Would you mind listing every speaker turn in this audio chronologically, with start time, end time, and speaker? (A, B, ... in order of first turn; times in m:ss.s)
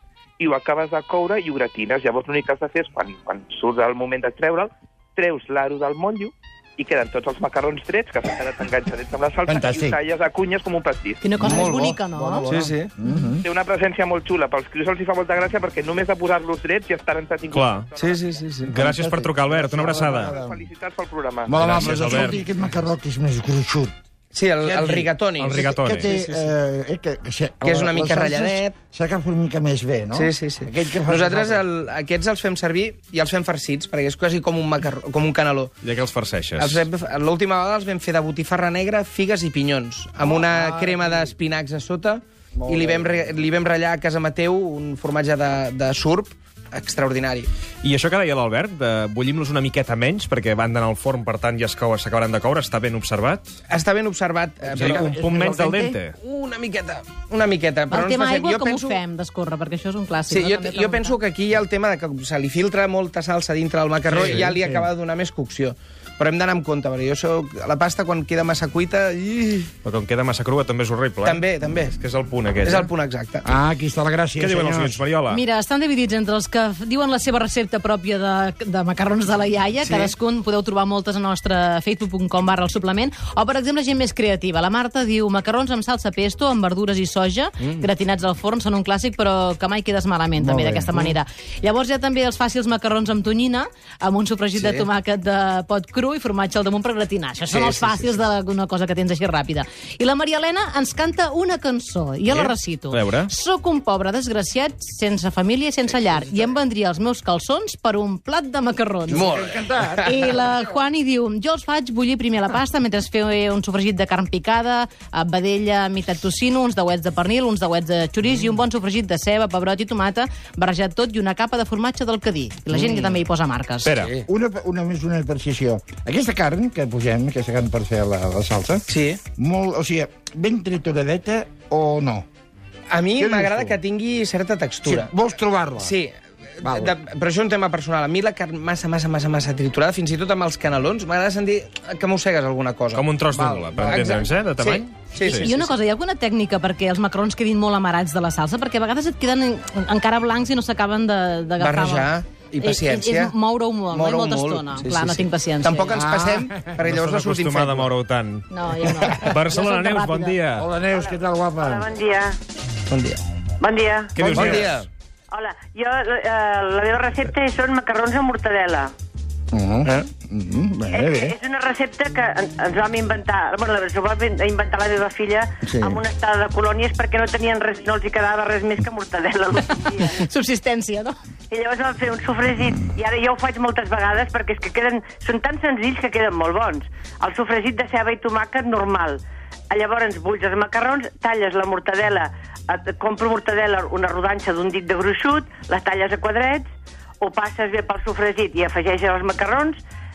0:00.4-0:11.2 A
0:09.5-0:10.0 B
0:11.2-0:12.5 C
0:11.4-0:13.4 B
0:11.4-0:11.8 D
0:12.5-0:12.9 D
0:13.4-0:18.3 A
0:17.5-0:17.9 E
0:18.0-0:18.7 D
0:18.6-0:20.4 E
0:18.7-0:20.6 B
0:20.3-0:21.6 A
0:21.5-0:23.9 B
0:21.6-0:22.4 E
0:24.3-0:26.5 D
0:24.6-0:31.6 B
0:25.4-0:26.1 E
0:27.6-0:28.8 D
0:30.1-0:35.7 D
0:35.8-0:36.9 E
0:36.6-0:47.5 D
0:40.2-0:41.3 B
0:42.6-0:43.4 B
0:47.8-0:53.5 E
0:53.7-0:55.5 D
0:54.6-0:55.6 B
0:54.8-0:56.2 E
0:55.4-0:56.0 C
0:56.2-0:59.0 D
0:57.9-1:01.2 C
1:00.3-1:09.7 D
1:04.1-1:04.5 E
1:04.2-1:04.8 B
1:09.8-1:12.9 E
1:11.2-1:12.0 D
1:12.6-1:13.5 D
1:13.4-1:15.0 B
1:14.4-1:15.4 E
1:15.3-1:49.4 C
1:19.8-1:20.1 D
1:30.4-1:31.1 B
1:34.6-1:34.9 D
1:37.5-1:38.2 D
1:42.3-1:43.3 E
1:49.1-1:50.1 D
1:49.1-1:50.6 B
1:49.9-2:03.9 C
2:02.7-2:03.1 D
2:03.8-2:04.1 E
2:04.3-2:12.3 B
2:08.9-2:09.2 D
2:12.9-2:15.1 D
2:13.2-2:13.8 B
2:14.8-2:16.0 B
2:15.8-2:23.1 D
2:16.6-2:16.9 B
2:22.9-2:25.5 E
2:23.3-2:24.2 B
2:23.9-2:25.7 D
2:25.2-2:35.9 C
2:31.6-2:33.3 D
2:33.9-2:37.9 D
2:35.9-2:36.7 B
2:36.8-2:38.5 E
2:38.5-2:40.4 C
2:39.2-2:40.7 E
2:40.6-2:41.9 B
2:41.0-2:42.4 F
2:42.9-2:43.2 D
2:43.6-2:44.3 F
2:44.1-2:44.8 E
2:44.2-2:44.7 B
2:44.3-2:44.9 D
2:45.3-2:48.9 F
2:49.5-2:51.4 B
2:50.9-3:00.2 F
2:55.6-2:56.0 B
3:00.0-3:01.1 C
3:01.5-3:16.7 F
3:17.2-3:19.8 F